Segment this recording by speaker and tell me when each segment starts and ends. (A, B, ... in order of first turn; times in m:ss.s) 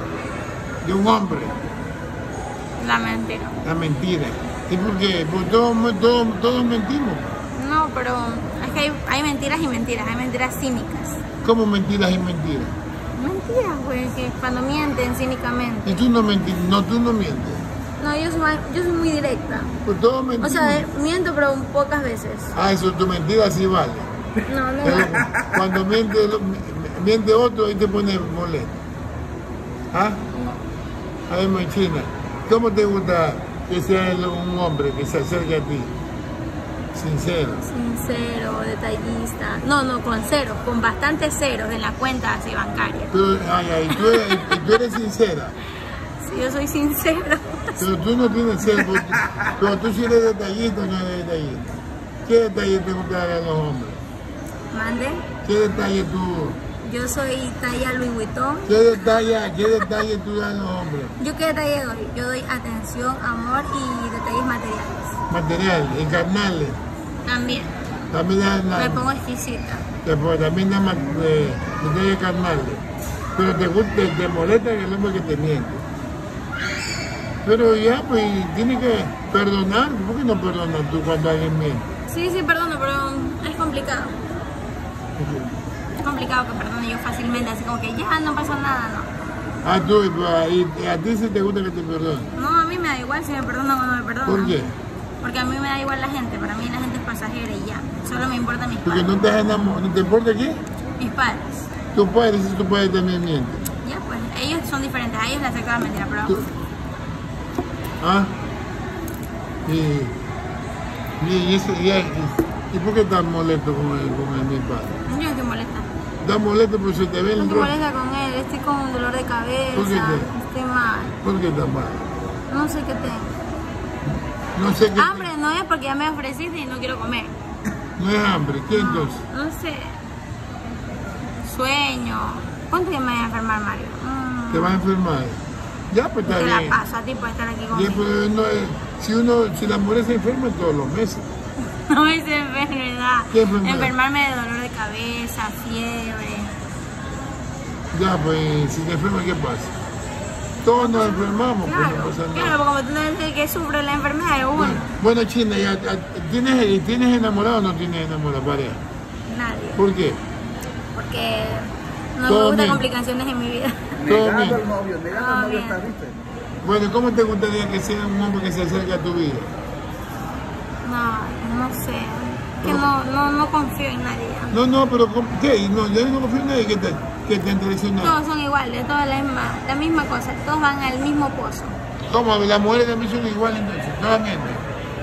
0:00.8-0:01.6 A
0:02.8-0:03.6 B
0:03.6-0:07.3 A
0:07.6-0:11.2 B
0:11.4-0:12.7 A
0:13.2-0:16.0 B
0:15.8-0:17.6 A
0:18.0-0:19.8 B
0:19.8-0:20.9 A
0:20.4-0:22.5 B
0:22.5-0:24.1 A
0:24.5-0:25.3 B
0:24.8-0:28.8 A
0:29.9-0:30.2 A
0:31.3-0:35.9 A
0:36.9-0:37.7 A
0:37.6-0:43.1 B
0:43.1-0:45.6 A
0:43.9-0:45.0 B
0:45.9-0:47.8 B
0:47.8-0:51.7 A
0:52.2-0:54.0 A
0:54.7-0:55.3 B
0:55.4-0:56.6 A
0:56.8-0:58.8 B
0:58.7-1:01.1 A
1:01.2-1:05.2 B
1:05.3-1:06.8 A
1:07.2-1:07.7 B
1:08.1-1:09.1 A
1:08.8-1:09.9 B
1:10.0-1:15.8 A
1:17.4-1:21.9 A
1:22.1-1:24.2 B
1:25.2-1:25.5 A
1:26.0-1:29.1 B
1:29.6-1:32.3 A
1:32.4-1:34.7 B
1:34.3-1:34.7 A
1:35.2-1:39.1 B
1:38.8-1:40.6 A
1:41.0-1:41.6 B
1:41.9-1:43.7 A
1:43.8-1:46.4 B
1:48.0-1:48.4 A
1:49.7-1:50.2 A
1:51.2-1:55.0 A
1:55.1-1:55.9 B
1:56.2-1:57.8 A
1:57.4-2:01.2 B
1:59.7-2:00.3 A
2:01.2-2:02.1 A
2:02.5-2:03.4 B
2:04.6-2:05.3 A
2:04.9-2:07.3 B
2:08.0-2:09.2 A
2:08.7-2:10.0 B
2:11.4-2:14.8 B
2:14.5-2:16.8 A
2:16.3-2:18.0 B
2:17.7-2:21.3 A
2:21.6-2:26.5 B
2:23.3-2:23.9 A
2:27.9-2:29.7 A
2:30.6-2:32.6 A
2:30.7-2:34.9 B
2:34.6-2:38.8 A
2:39.3-2:39.8 B
2:39.8-2:40.2 A
2:41.0-2:44.0 B
2:42.3-2:42.8 A
2:44.0-2:46.2 C
2:44.0-2:44.6 A
2:45.1-2:45.8 B
2:46.6-2:49.5 A
2:50.8-2:54.6 B
2:52.6-2:52.9 A
2:54.5-2:58.2 A
2:58.0-3:01.8 B
3:02.1-3:04.6 A